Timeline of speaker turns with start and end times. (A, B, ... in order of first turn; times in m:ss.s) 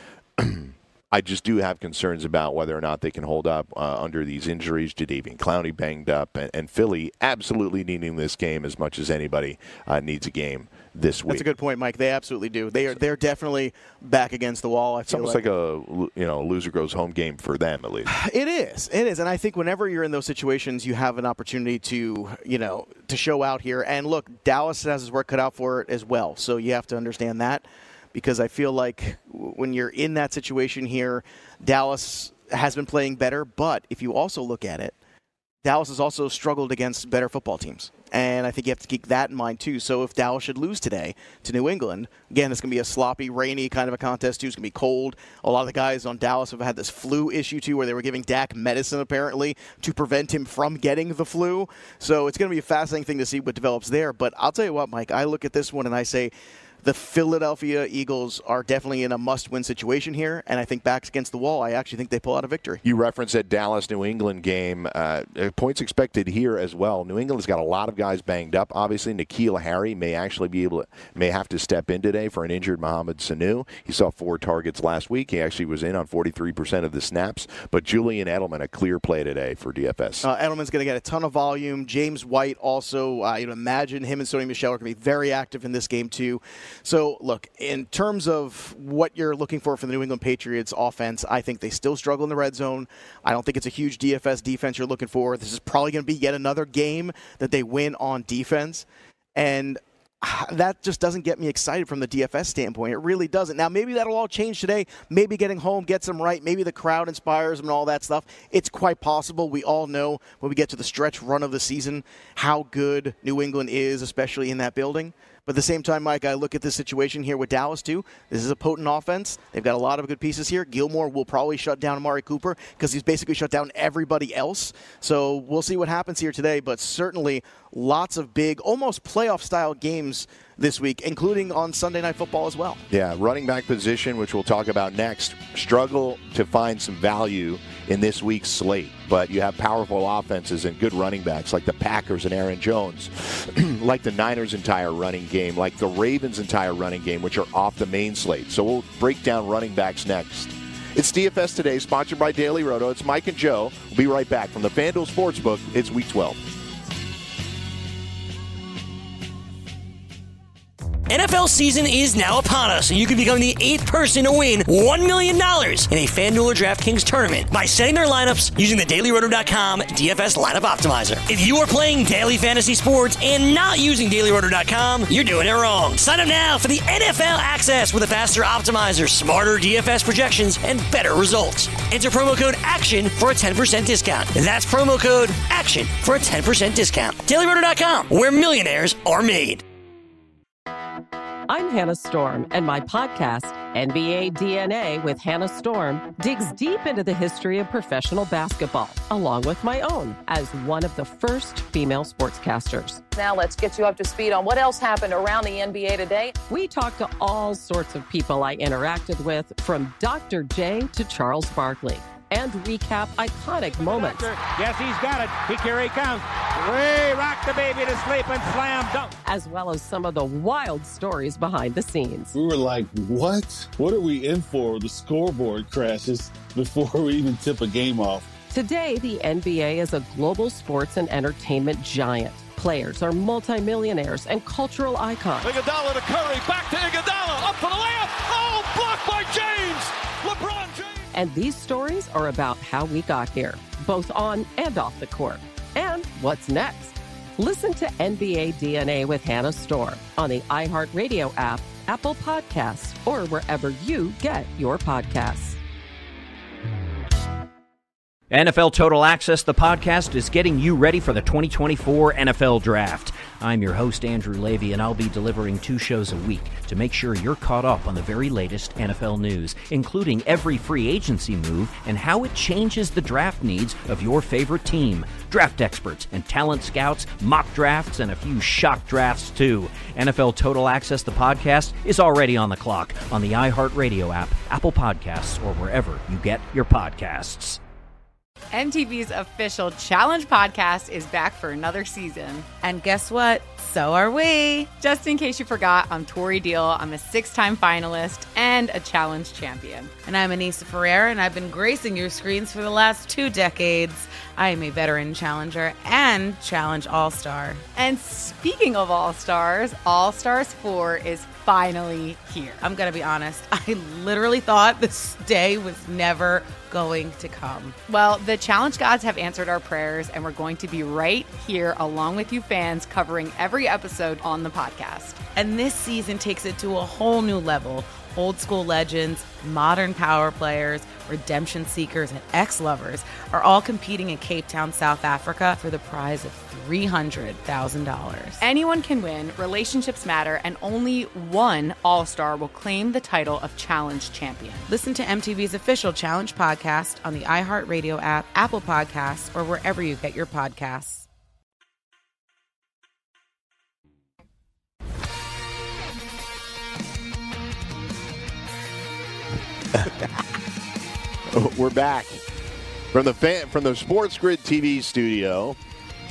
0:00.4-0:11.5 A
0:11.3-0:15.4 B
0:15.1-0:18.1 A
0:18.1-0:35.0 B
0:35.6-0:56.3 B
0:56.8-1:02.8 B
1:02.8-1:20.3 A
1:20.2-2:12.8 B
2:12.9-2:36.4 A
2:41.1-3:09.6 C
3:11.5-3:23.0 D
3:23.2-3:26.3 E
3:26.5-3:34.3 D
3:33.7-3:39.2 F
3:39.2-3:42.3 D
3:42.3-3:48.3 G
3:48.5-3:55.5 D
3:55.4-4:01.1 H
4:01.1-4:15.6 D
4:18.3-4:47.6 I
4:48.5-4:52.5 J
4:52.6-4:54.7 K
4:54.8-4:59.9 J
5:00.1-5:07.6 K
5:07.8-5:12.6 J
5:12.6-5:17.8 K
5:17.9-5:25.2 J
5:25.4-5:38.4 K
5:38.4-5:44.7 J
5:44.7-5:51.0 K
5:59.8-6:00.0 A
6:01.3-6:02.2 A
6:02.9-6:05.6 A